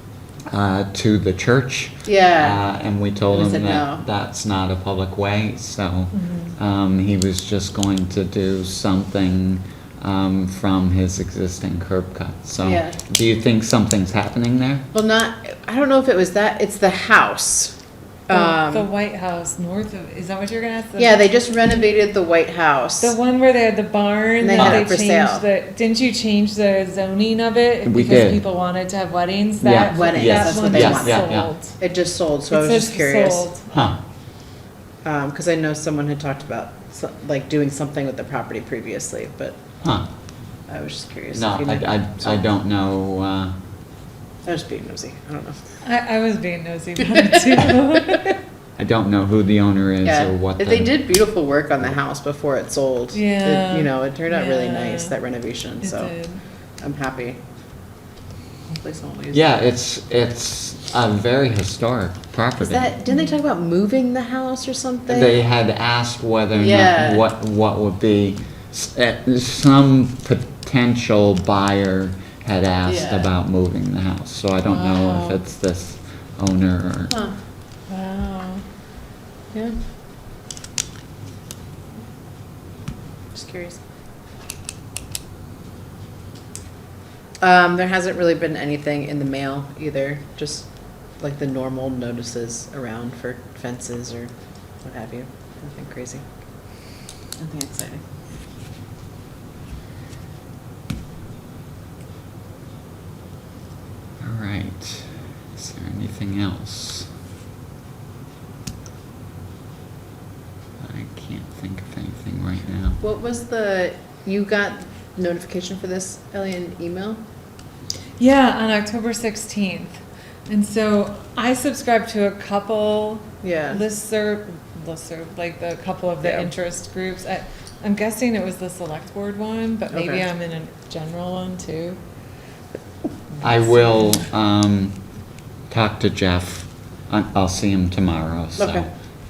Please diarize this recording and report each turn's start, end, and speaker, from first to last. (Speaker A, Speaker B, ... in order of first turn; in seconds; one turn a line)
Speaker A: 0.5-14.9
Speaker B: 2.0-2.6
Speaker B: 3.3-4.0
Speaker C: 6.1-6.5
Speaker B: 12.6-13.0
Speaker B: 14.9-17.7
Speaker B: 18.3-18.9
Speaker C: 18.3-21.2
Speaker B: 21.0-23.1
Speaker C: 23.0-31.8
Speaker B: 24.4-25.4
Speaker A: 24.6-24.8
Speaker A: 27.8-28.4
Speaker A: 29.6-31.5
Speaker B: 29.9-31.3
Speaker B: 31.8-33.5
Speaker C: 32.5-33.7
Speaker A: 33.7-34.0
Speaker B: 35.0-39.6
Speaker A: 39.8-40.1
Speaker B: 40.7-42.4
Speaker A: 41.3-43.5
Speaker B: 44.4-45.6
Speaker C: 45.8-48.4
Speaker A: 48.8-51.0
Speaker B: 50.0-56.1
Speaker C: 53.1-55.1
Speaker C: 55.8-56.4
Speaker B: 56.8-57.4
Speaker B: 58.8-59.4
Speaker A: 59.3-62.9
Speaker B: 62.6-65.3
Speaker A: 65.1-77.1
Speaker B: 66.5-67.2
Speaker B: 72.8-73.3
Speaker C: 74.7-75.4
Speaker B: 77.1-77.3
Speaker C: 77.9-78.6
Speaker B: 79.5-79.8
Speaker B: 83.3-83.8
Speaker B: 87.4-90.7
Speaker B: 91.2-94.3
Speaker B: 94.8-96.2
Speaker B: 97.4-98.0
Speaker A: 104.2-107.1
Speaker A: 110.8-113.0
Speaker B: 113.0-117.2
Speaker C: 118.2-132.0
Speaker B: 123.4-123.8
Speaker B: 126.2-126.5
Speaker B: 129.9-130.2
Speaker C: 133.4-134.1
Speaker A: 133.4-135.0
Speaker A: 135.7-138.9
Speaker B: 138.6-138.9